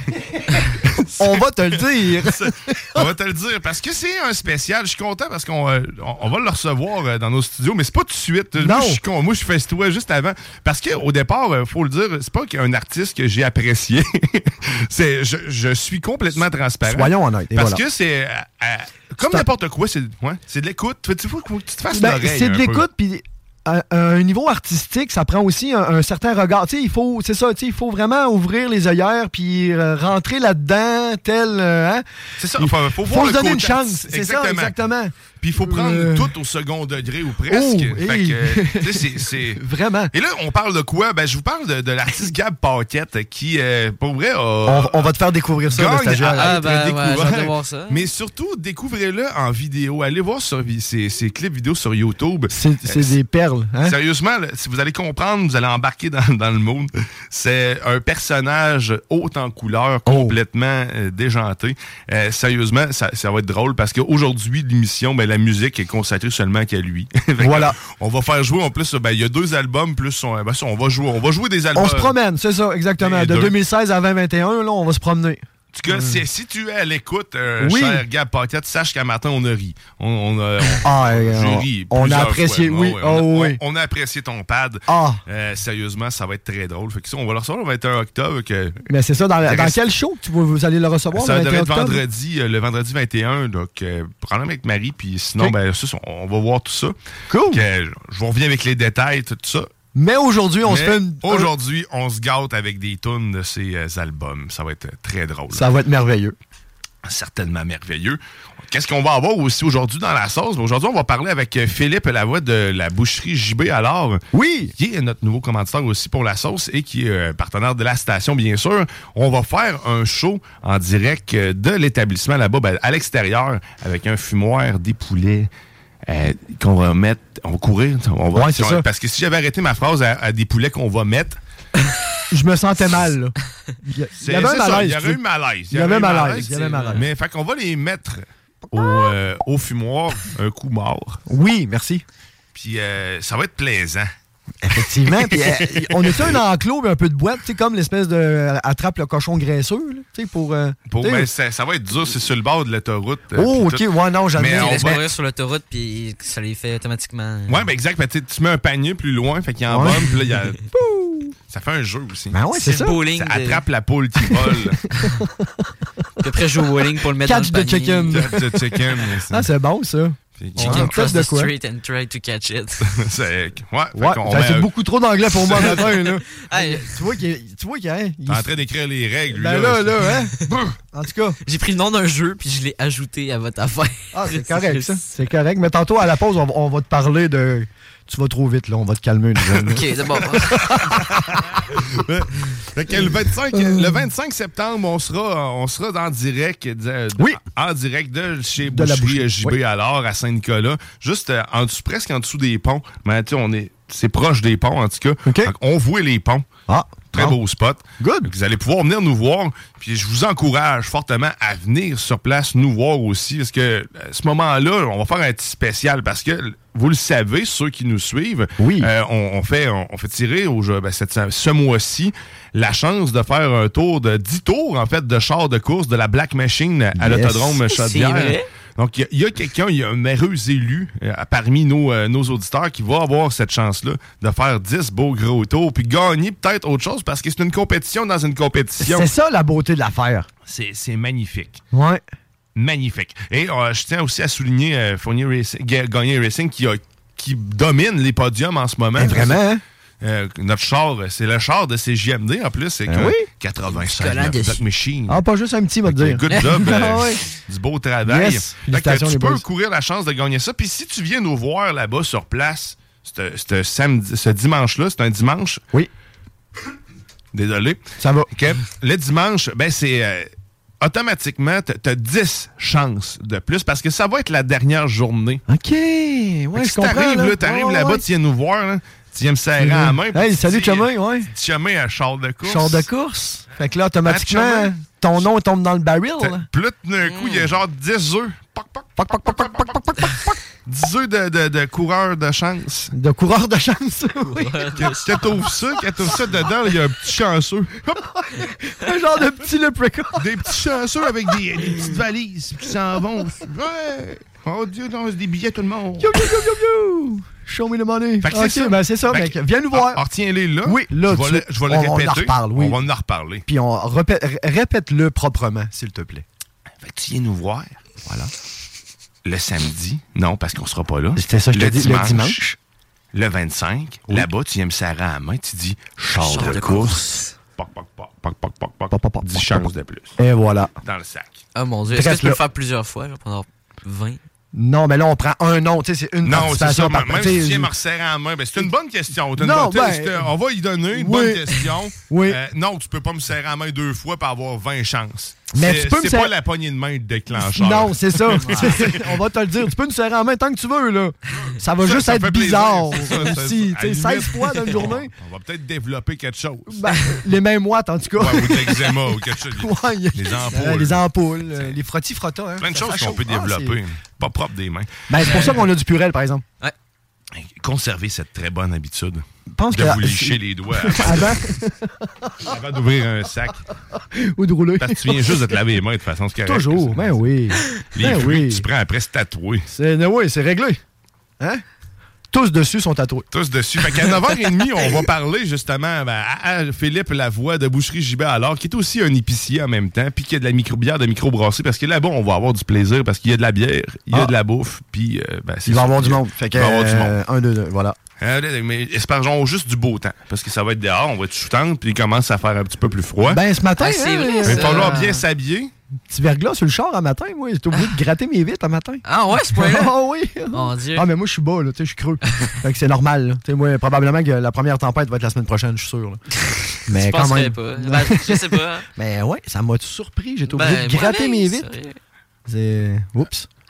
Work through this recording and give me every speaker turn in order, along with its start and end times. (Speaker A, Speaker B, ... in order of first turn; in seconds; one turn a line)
Speaker A: 0.5-22.9
Speaker B: 1.2-3.1
Speaker B: 8.6-9.0
Speaker B: 16.9-17.8
Speaker B: 21.9-32.0
Speaker A: 32.4-34.8
Speaker B: 32.6-36.3
Speaker A: 35.4-39.6
Speaker B: 37.5-40.1
Speaker A: 40.1-45.1
Speaker B: 44.7-46.6
Speaker A: 45.7-53.1
Speaker C: 46.3-48.1
Speaker B: 52.5-54.0
Speaker A: 53.8-72.1
Speaker B: 60.1-60.4
Speaker B: 67.4-67.8
Speaker B: 71.8-76.2
Speaker A: 73.0-73.5
Speaker A: 75.7-88.8
Speaker B: 77.6-78.0
Speaker B: 80.8-83.6
Speaker B: 84.9-85.2
Speaker B: 88.9-92.0
Speaker A: 89.5-89.8
Speaker A: 91.2-97.0
Speaker B: 97.3-97.6
Speaker A: 97.5-99.7
Speaker B: 100.0-101.5
Speaker A: 100.7-105.7
Speaker B: 105.5-106.4
Speaker A: 107.0-114.2
Speaker B: 114.3-114.7
Speaker A: 114.8-125.5
Speaker A: 126.1-131.4
Speaker B: 128.3-128.8
Speaker B: 132.3-135.2
Speaker A: 134.2-141.2
Speaker B: 135.7-137.1
Speaker C: 136.4-137.0
Speaker B: 138.7-139.1
Speaker B: 141.3-142.0
Speaker A: 142.6-144.1
Speaker B: 144.6-151.3
Speaker A: 145.3-146.4
Speaker A: 150.9-155.0
Speaker B: 153.3-155.0
Speaker C: 154.5-157.7
Speaker A: 157.5-160.6
Speaker B: 159.7-160.1
Speaker B: 160.7-161.3
Speaker A: 161.5-162.4
Speaker B: 162.3-163.0
Speaker C: 162.5-163.6
Speaker A: 163.1-164.8
Speaker B: 164.3-165.7
Speaker C: 166.2-168.2
Speaker B: 167.2-171.5
Speaker A: 168.1-169.5
Speaker A: 170.4-170.9
Speaker C: 170.6-172.9
Speaker A: 172.9-174.7
Speaker B: 173.9-178.5
Speaker A: 175.4-175.8
Speaker C: 175.8-176.9
Speaker A: 178.3-180.1
Speaker B: 179.3-181.4
Speaker C: 181.4-185.1
Speaker B: 184.1-191.4
Speaker C: 189.7-190.8
Speaker A: 190.6-206.4
Speaker B: 193.5-193.9
Speaker B: 198.6-199.6
Speaker B: 205.3-205.5
Speaker B: 206.7-207.4
Speaker A: 207.1-239.1
Speaker B: 208.0-208.3
Speaker B: 218.6-218.9
Speaker B: 226.9-227.6
Speaker C: 227.7-228.4
Speaker B: 238.8-240.3
Speaker A: 240.5-241.6
Speaker B: 241.7-242.0
Speaker A: 242.6-249.4
Speaker B: 249.0-249.6
Speaker A: 250.0-255.2
Speaker B: 252.9-253.2
Speaker C: 253.7-254.6
Speaker B: 255.1-257.2
Speaker A: 255.8-265.6
Speaker C: 256.3-256.6
Speaker B: 258.1-259.4
Speaker A: 267.3-270.3
Speaker B: 268.0-268.3
Speaker A: 270.8-275.4
Speaker B: 275.5-278.1
Speaker A: 276.5-282.9
Speaker B: 279.6-281.3
Speaker B: 282.4-286.5
Speaker A: 284.1-284.7
Speaker A: 286.2-292.9
Speaker C: 287.0-287.5
Speaker B: 289.0-290.3
Speaker B: 292.9-294.6
Speaker C: 294.2-295.3
Speaker A: 294.8-298.0
Speaker B: 298.2-300.3
Speaker A: 300.2-306.2
Speaker B: 306.0-310.0
Speaker A: 308.2-313.4
Speaker B: 310.6-312.8
Speaker B: 313.5-316.2
Speaker A: 316.8-317.8
Speaker B: 318.1-318.3
Speaker A: 319.2-322.4
Speaker B: 321.2-322.6
Speaker A: 323.1-330.2
Speaker C: 326.2-327.3
Speaker B: 328.9-330.7
Speaker A: 330.8-331.4
Speaker C: 331.6-334.2
Speaker B: 331.9-332.4
Speaker B: 334.5-337.7
Speaker A: 336.2-349.1
Speaker B: 339.4-340.3
Speaker B: 340.9-341.5
Speaker B: 342.1-342.4
Speaker B: 345.5-346.3
Speaker B: 347.4-355.1
Speaker C: 348.4-348.8
Speaker A: 351.8-357.1
Speaker B: 356.7-363.8
Speaker A: 358.2-361.0
Speaker A: 362.6-365.6
Speaker B: 365.1-366.4
Speaker C: 365.2-365.6
Speaker A: 367.4-371.4
Speaker B: 369.5-372.5
Speaker A: 372.4-373.6
Speaker B: 374.1-375.6
Speaker A: 374.8-377.2
Speaker B: 376.4-378.7
Speaker A: 377.9-379.7
Speaker B: 379.7-380.8
Speaker B: 382.3-383.3
Speaker A: 383.3-397.1
Speaker B: 395.7-398.0
Speaker A: 398.2-403.4
Speaker B: 403.3-405.0
Speaker C: 403.8-405.2
Speaker A: 404.4-405.7
Speaker B: 406.1-416.2
Speaker C: 409.1-409.9
Speaker C: 410.5-411.1
Speaker B: 416.9-421.7
Speaker C: 416.9-418.9
Speaker C: 420.5-422.0
Speaker B: 422.5-423.5